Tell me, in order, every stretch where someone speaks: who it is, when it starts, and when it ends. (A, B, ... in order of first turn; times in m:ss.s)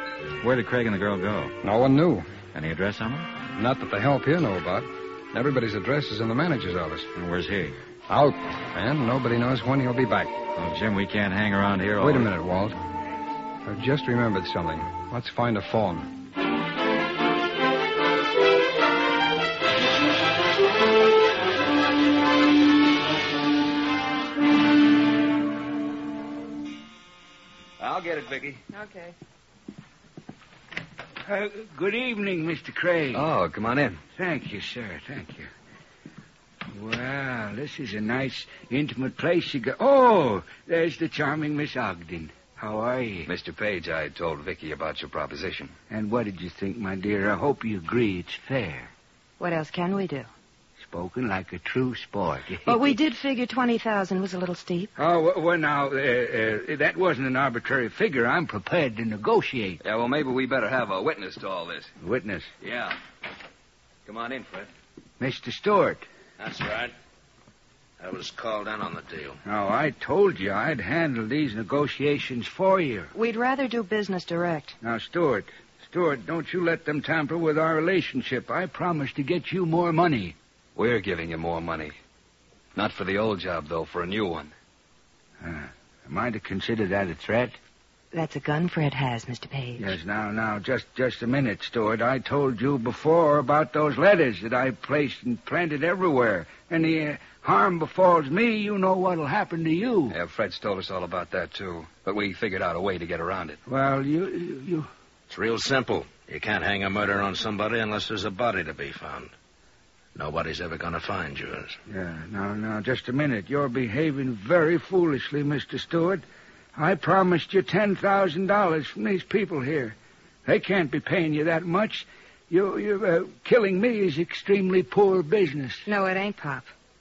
0:00.4-0:01.5 A
0:01.6-0:02.3 B
0:02.5-0:03.3 A
0:03.5-0:07.1 B
0:07.1-0:07.8 A
0:08.1-0:10.4 B
0:10.6-0:12.3 A
0:12.0-0:12.7 B
0:13.6-0:16.1 B
0:27.8-0:28.6 C
0:31.2-0:33.3 D
0:33.1-0:34.0 C
0:34.2-0:35.5 D
0:36.7-0:43.3 D
0:43.2-0:45.7 C
0:45.9-0:48.9 D
0:49.4-0:50.3 E
0:50.8-0:52.8 D
0:52.6-0:54.9 E
0:55.0-0:59.8 D
0:59.8-1:01.9 C
1:02.0-1:02.5 D
1:02.6-1:03.0 C
1:04.0-1:04.7 C
1:05.2-1:06.0 D
1:06.4-1:06.9 F
1:08.0-1:09.4 F
1:09.4-1:13.1 D
1:13.1-1:14.8 E
1:14.8-1:20.3 D
1:20.8-1:22.0 C
1:22.7-1:24.5 C
1:25.4-1:27.6 D
1:28.1-1:29.9 E
1:29.8-1:40.1 D
1:40.1-1:43.6 C
1:43.6-1:44.9 D
1:45.3-1:49.3 F
1:50.1-1:51.8 F
1:51.9-1:56.2 D
1:56.8-1:59.9 D
2:00.4-2:05.8 D
2:05.8-2:06.7 E